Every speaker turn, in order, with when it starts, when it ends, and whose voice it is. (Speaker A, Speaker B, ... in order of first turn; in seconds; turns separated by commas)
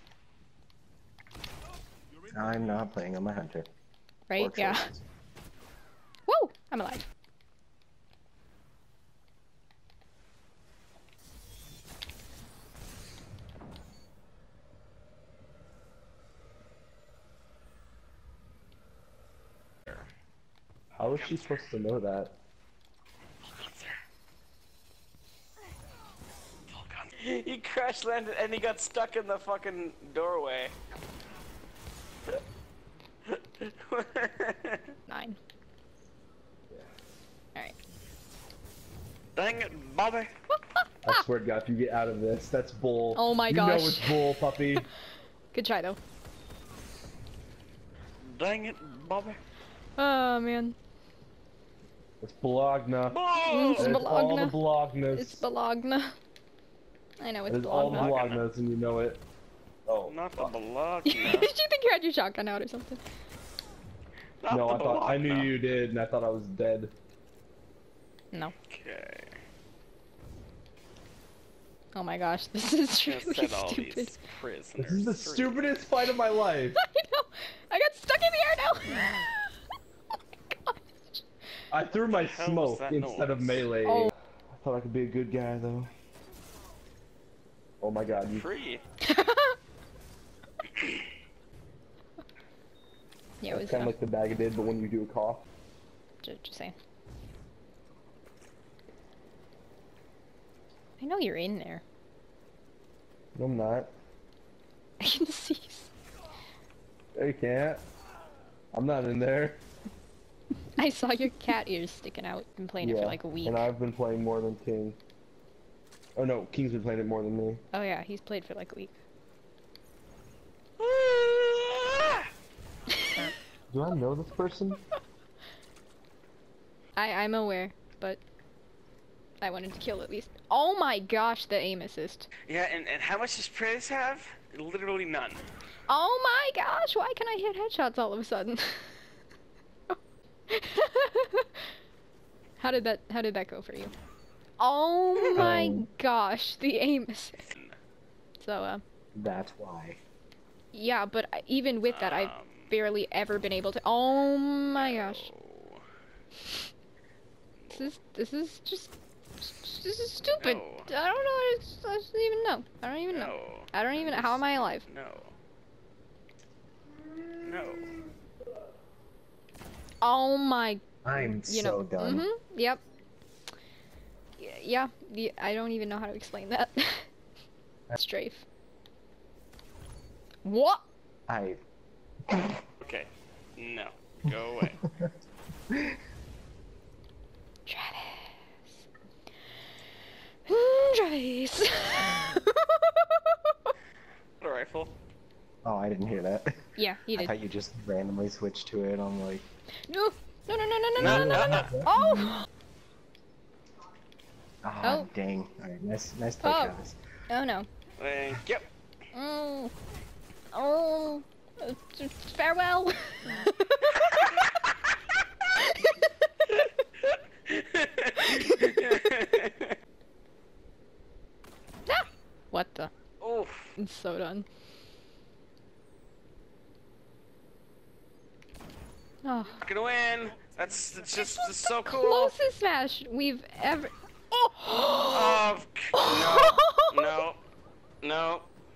Speaker A: 2.3-3.7, Speaker B: 4.3-4.9, Speaker A: 4.4-5.0, Speaker B: 6.3-7.1, Speaker C: 21.0-22.4, Speaker D: 21.1-21.7, Speaker D: 23.5-24.0, Speaker D: 26.7-30.8, Speaker D: 33.3-34.9, Speaker B: 35.1-35.4, Speaker D: 39.4-40.3, Speaker C: 41.0-44.9, Speaker B: 43.1-44.9, Speaker B: 45.5-46.0, Speaker D: 48.3-49.4, Speaker B: 50.0-50.8, Speaker C: 52.2-53.2, Speaker D: 53.1-53.9, Speaker B: 53.5-54.6, Speaker C: 53.8-55.5, Speaker B: 55.1-56.2, Speaker B: 57.2-58.2, Speaker C: 57.5-59.2, Speaker D: 57.8-58.5, Speaker C: 59.9-60.5, Speaker D: 60.0-61.5, Speaker B: 61.0-63.0, Speaker D: 64.4-65.6, Speaker C: 64.5-66.9, Speaker D: 68.7-69.4, Speaker B: 71.9-74.2, Speaker D: 73.1-75.7, Speaker C: 74.8-76.8, Speaker B: 76.8-79.5, Speaker B: 80.5-81.2, Speaker C: 81.7-85.9, Speaker D: 82.1-83.7, Speaker B: 83.8-84.1, Speaker C: 87.8-88.5, Speaker D: 88.2-88.8, Speaker B: 89.0-89.6, Speaker B: 93.4-93.9, Speaker C: 93.5-95.5, Speaker B: 96.2-96.8, Speaker B: 101.0-101.8, Speaker C: 103.3-103.9, Speaker B: 105.0-105.9, Speaker C: 107.2-107.8, Speaker C: 108.7-109.6, Speaker B: 110.8-113.7, Speaker C: 112.8-115.0, Speaker C: 116.2-117.6, Speaker B: 117.7-118.9, Speaker D: 120.8-122.3, Speaker C: 123.7-124.8, Speaker B: 127.0-128.2, Speaker B: 129.4-132.3, Speaker D: 132.5-135.5, Speaker B: 135.9-139.0, Speaker B: 140.5-141.7, Speaker B: 142.6-143.9, Speaker B: 144.6-147.4, Speaker C: 145.3-145.9, Speaker B: 148.4-148.8, Speaker A: 149.2-150.0, Speaker B: 150.7-155.3, Speaker D: 151.9-152.7, Speaker D: 154.8-155.8, Speaker D: 157.6-157.9, Speaker B: 157.7-164.9, Speaker D: 160.2-160.9, Speaker D: 163.1-165.3, Speaker D: 167.4-167.9, Speaker B: 170.0-172.8, Speaker A: 171.1-172.3, Speaker B: 174.4-177.1, Speaker B: 177.9-178.4, Speaker B: 180.4-180.8, Speaker A: 181.3-181.6, Speaker A: 182.3-182.6, Speaker D: 182.8-184.8, Speaker B: 187.7-188.5, Speaker B: 190.5-193.7, Speaker D: 194.4-195.0, Speaker A: 195.6-196.5, Speaker B: 196.8-197.3, Speaker A: 197.1-199.5, Speaker B: 199.9-202.5, Speaker D: 201.0-201.8, Speaker C: 201.0-201.9, Speaker A: 204.6-207.0, Speaker B: 204.8-205.1, Speaker B: 206.4-206.8, Speaker B: 207.3-207.7, Speaker D: 208.0-208.7, Speaker B: 209.1-209.7, Speaker B: 210.5-214.5, Speaker B: 215.6-216.1, Speaker D: 216.6-219.8, Speaker B: 221.9-222.9, Speaker D: 223.2-223.8, Speaker B: 223.8-224.5, Speaker B: 229.2-229.6, Speaker D: 229.6-232.3, Speaker B: 231.7-235.4, Speaker D: 235.1-237.4, Speaker B: 235.9-237.2, Speaker D: 238.0-238.5